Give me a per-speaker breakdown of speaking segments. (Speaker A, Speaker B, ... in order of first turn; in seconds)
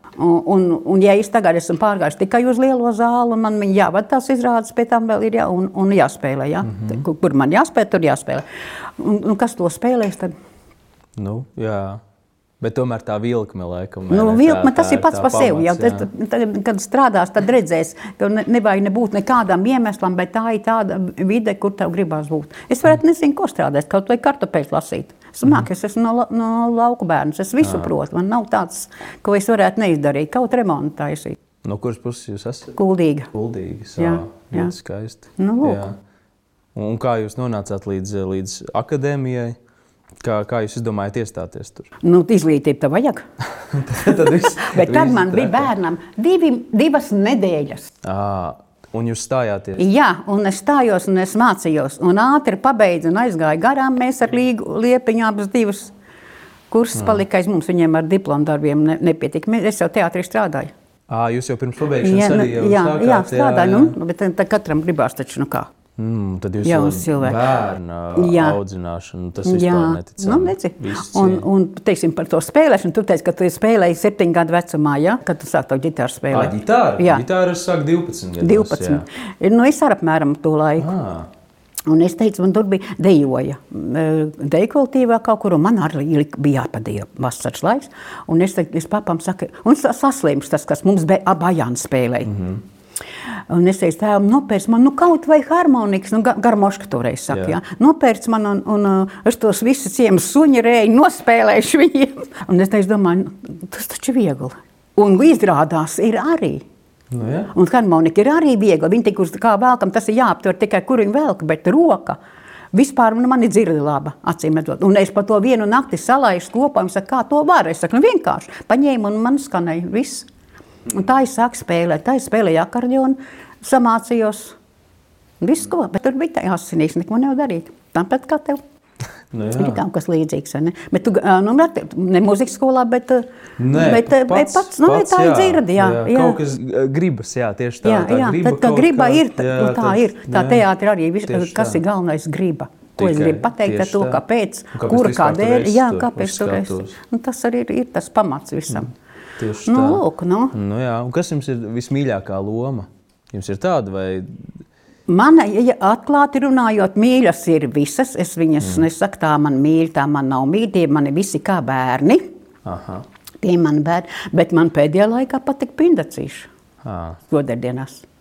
Speaker A: 0.2-8.4, 9.0-10.3, 14.1-31.4, 32.8-33.3, 34.0-34.7, 35.4-35.9, 42.0-43.2, 44.1-47.9, 49.8-55.9, 56.7-60.7, 62.0-65.7, 66.6-67.4, 68.2-68.6, 69.5-77.2, 78.4-80.9, 81.9-92.3, 93.4-106.7, 107.5-112.2, 112.7-120.3, 120.9-124.6, 125.4-128.6, 129.6-136.4, 137.8-148.9, 149.7-150.5, 155.1-162.2, 163.4-166.5, 167.3-168.1
Speaker B: 6.7-7.0, 11.2-12.0, 12.6-16.1, 27.6-27.9, 31.6-32.8, 33.3-36.0, 36.8-39.6, 40.2-41.9, 43.7-45.7, 48.0-49.8, 57.0-57.2, 61.1-64.0, 66.0-71.5, 76.3-79.0, 80.8-81.3, 92.3-92.6, 97.3-97.6, 107.1-107.5, 129.3-129.8, 133.6-140.7, 141.2-141.8, 143.0-144.2, 144.7-147.0, 149.4-150.0, 150.5-154.4, 158.6-158.8, 162.7-163.1, 166.8-167.2